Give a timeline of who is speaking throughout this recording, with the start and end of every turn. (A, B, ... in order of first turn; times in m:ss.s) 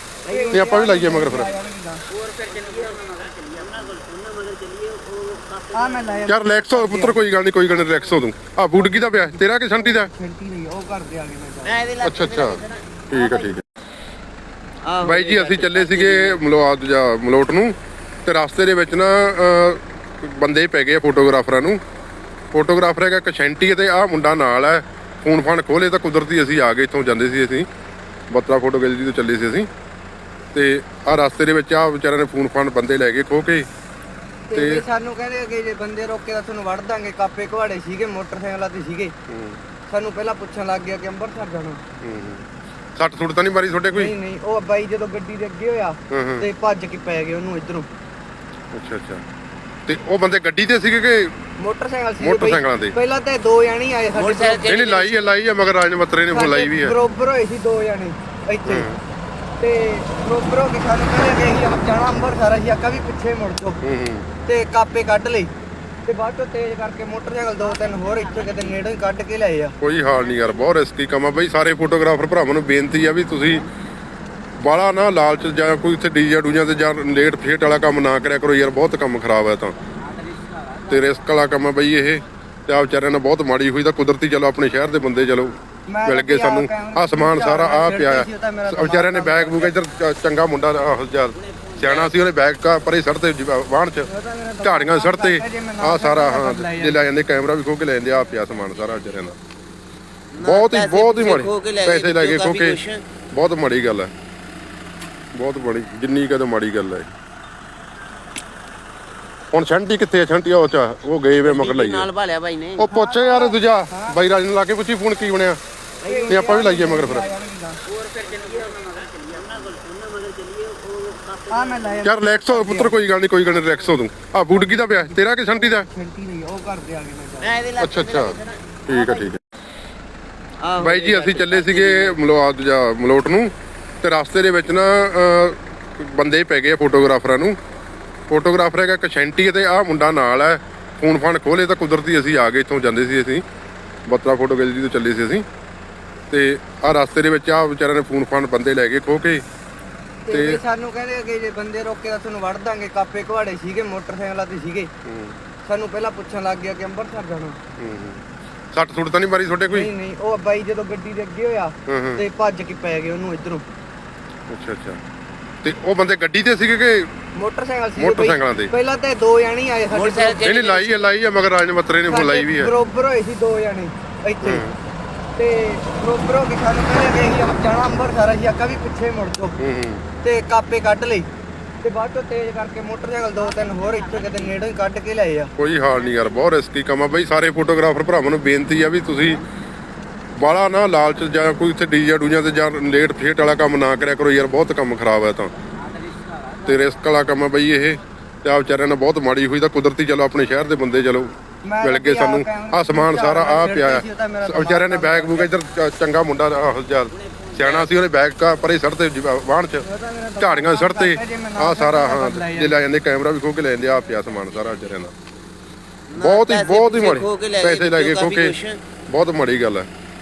0:00.2-0:00.9 A
0:00.3-0:02.0 B
0:00.5-0:01.5 C
0:02.3-0:06.3 A
0:05.7-0:07.2 B
0:06.3-0:10.1 C
0:08.8-0:11.8 B
0:11.6-0:13.5 A
0:12.0-0:13.6 C
0:14.8-0:16.4 A
0:15.0-0:17.7 C
0:18.2-0:21.8 C
0:22.5-0:27.6 C
0:28.3-0:29.7 C
0:30.5-0:33.7 C
0:34.5-0:39.1 B
0:34.5-0:34.8 C
0:39.3-0:39.6 C
0:39.9-0:41.8 B
0:42.0-0:44.1 C
0:43.9-0:47.9 B
0:46.1-0:46.5 C
0:48.7-0:49.2 C
0:49.9-0:51.4 C
0:51.6-0:54.6 B
0:52.2-0:52.9 C
0:54.1-0:55.3 A
0:54.6-0:56.9 C
0:56.3-0:58.9 B
0:58.6-0:59.0 C
0:59.6-1:03.8 B
1:03.8-1:04.3 C
1:04.4-1:05.5 B
1:06.0-1:09.7 B
1:09.8-1:13.6 C
1:14.6-1:19.8 C
1:20.9-1:34.1 C
1:25.9-1:29.7 B
1:31.6-1:32.1 A
1:34.1-1:37.0 B
1:34.6-1:39.4 C
1:40.3-1:43.0 A
1:40.4-1:42.8 C
1:43.3-1:44.1 C
1:45.4-1:47.1 C
1:49.5-1:52.1 C
1:51.4-1:52.8 A
1:52.8-1:55.6 C
1:52.8-1:54.2 B
1:56.0-1:56.5 A
1:56.0-1:57.8 B
1:56.3-1:57.3 C
1:58.2-2:02.0 A
2:01.5-2:03.0 B
2:02.0-2:05.9 C
2:04.5-2:07.6 B
2:07.4-2:09.2 A
2:07.8-2:09.4 C
2:10.6-2:12.2 A
2:10.8-2:17.6 C
2:18.3-2:23.4 C
2:24.1-2:25.4 C
2:26.3-2:29.4 C
2:30.2-2:34.9 B
2:30.3-2:30.6 C
2:35.0-2:35.4 C
2:35.6-2:37.6 B
2:37.8-2:38.2 C
2:38.7-2:39.9 C
2:39.7-2:43.6 B
2:41.9-2:42.2 C
2:44.5-2:45.0 C
2:45.6-2:47.1 C
2:47.4-2:50.4 B
2:48.0-2:48.7 C
2:49.9-2:51.0 A
2:50.4-2:52.7 C
2:52.1-2:54.6 B
2:54.4-2:54.8 C
2:55.4-2:59.6 B
2:59.6-3:00.0 C
3:00.2-3:01.3 B
3:01.8-3:05.5 B
3:05.6-3:09.4 C
3:10.4-3:15.5 C
3:16.6-3:29.8 C
3:21.6-3:25.5 B
3:27.1-3:27.9 A
3:29.8-3:32.7 B
3:30.4-3:35.1 C
3:36.1-3:38.8 A
3:36.2-3:38.5 C
3:39.1-3:39.9 C